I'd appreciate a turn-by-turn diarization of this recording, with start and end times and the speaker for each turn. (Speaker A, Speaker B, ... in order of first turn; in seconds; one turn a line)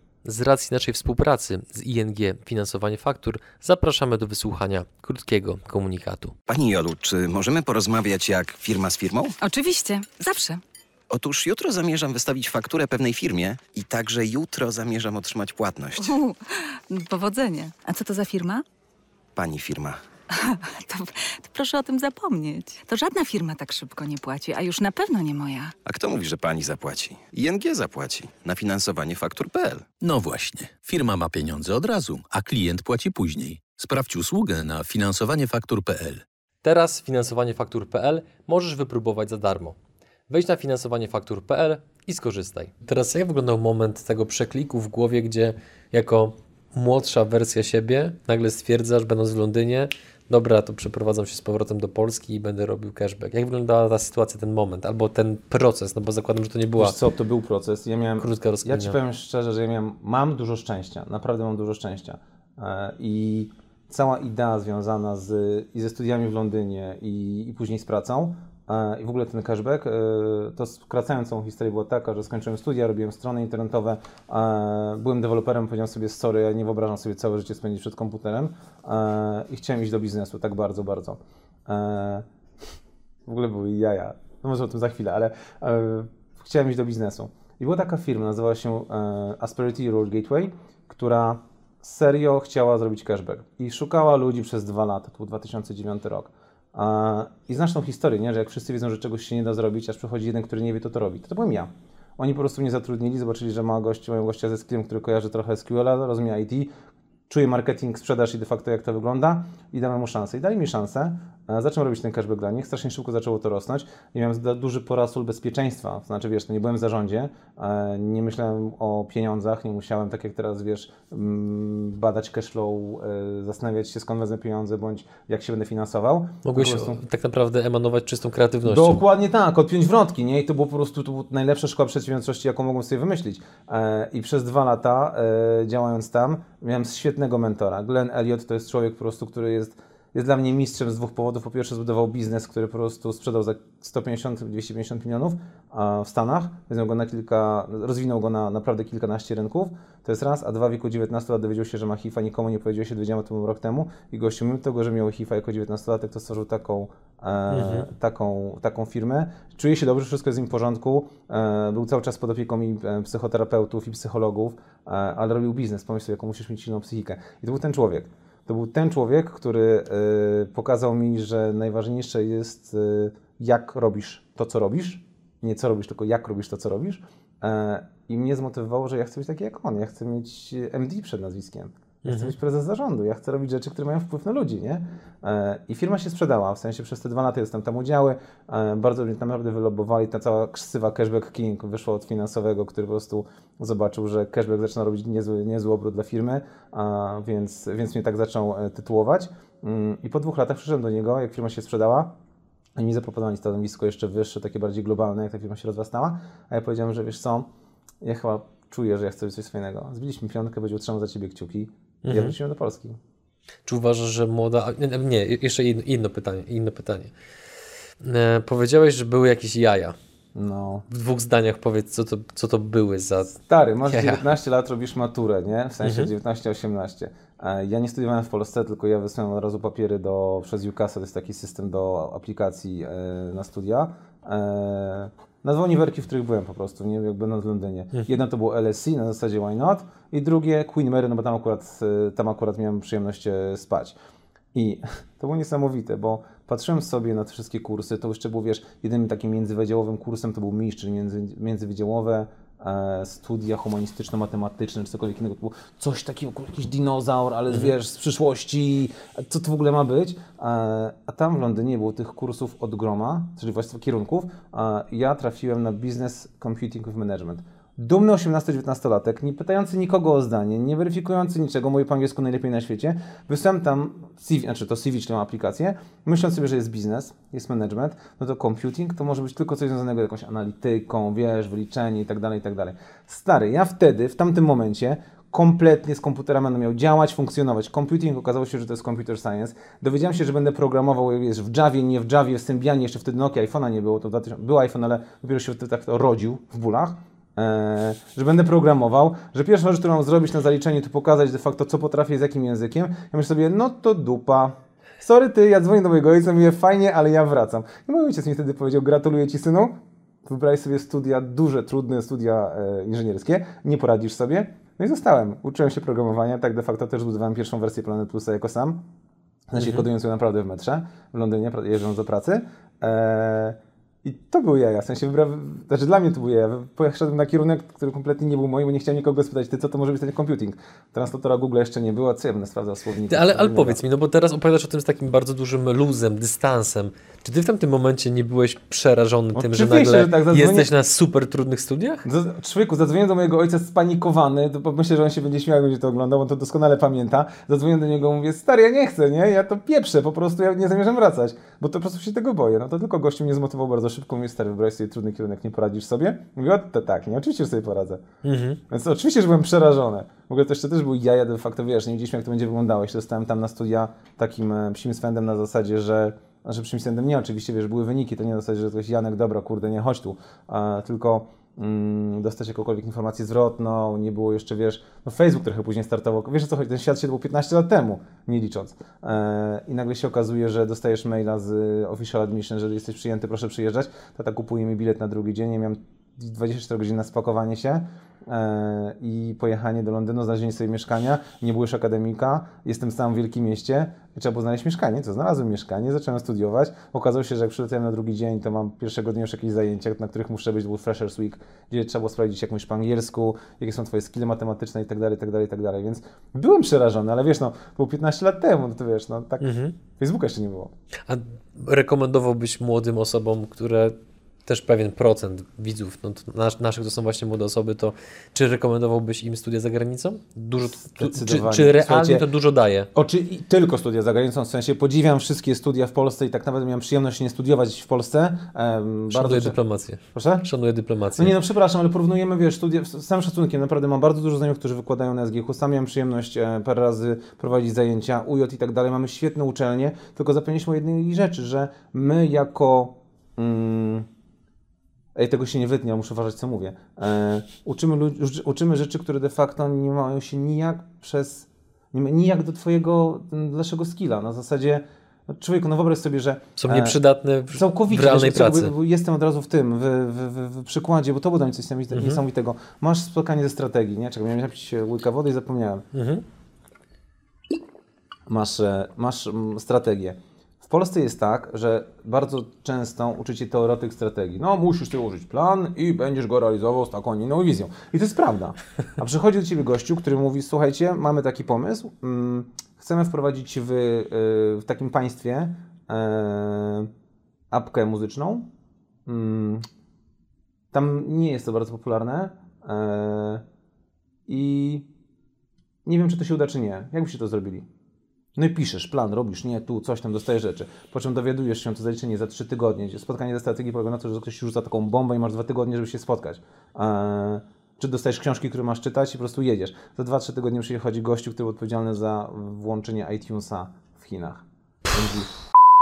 Speaker A: 0.2-6.4
Speaker B: 6.5-9.4
Speaker C: 9.4-10.6
Speaker B: 11.1-16.2
Speaker C: 16.0-18.6
Speaker B: 19.4-20.0
Speaker C: 20.3-25.7
Speaker B: 25.9-29.9
Speaker D: 30.0-36.2
Speaker A: 36.6-39.8
Speaker A: 40.3-57.0
Speaker E: 56.8-82.2
Speaker A: 58.2-59.0
Speaker E: 83.2-106.7
Speaker E: 107.3-127.0
Speaker A: 126.4-129.0
Speaker E: 128.6-202.1
Speaker A: 157.5-157.9
Speaker A: 182.0-182.3
Speaker E: 202.8-207.5
Speaker E: 208.0-213.0
Speaker A: 212.0-212.4
Speaker A: 213.6-217.1
Speaker A: 218.0-219.9
Speaker E: 220.3-220.9
Speaker A: 220.9-224.2
Speaker E: 223.3-243.9
Speaker A: 225.8-226.1
Speaker E: 244.5-318.8
Speaker E: 319.5-333.8
Speaker A: 319.6-319.9
Speaker A: 333.1-342.1
Speaker E: 339.4-340.7
Speaker E: 342.1-358.0
Speaker A: 358.2-358.6
Speaker E: 358.7-410.7
Speaker A: 409.4-409.7
Speaker A: 411.1-422.9
Speaker E: 420.8-422.2
Speaker E: 422.9-429.6
Speaker A: 429.1-431.3
Speaker E: 430.1-430.4
Speaker E: 431.1-444.1
Speaker E: 445.1-457.0
Speaker A: 456.6-458.7
Speaker E: 457.5-465.9
Speaker A: 461.9-462.2
Speaker A: 465.9-466.2
Speaker E: 468.3-486.9
Speaker E: 487.5-488.5
Speaker E: 489.1-489.6
Speaker E: 490.7-493.4
Speaker E: 494.3-494.9
Speaker E: 495.9-497.7
Speaker E: 498.4-515.4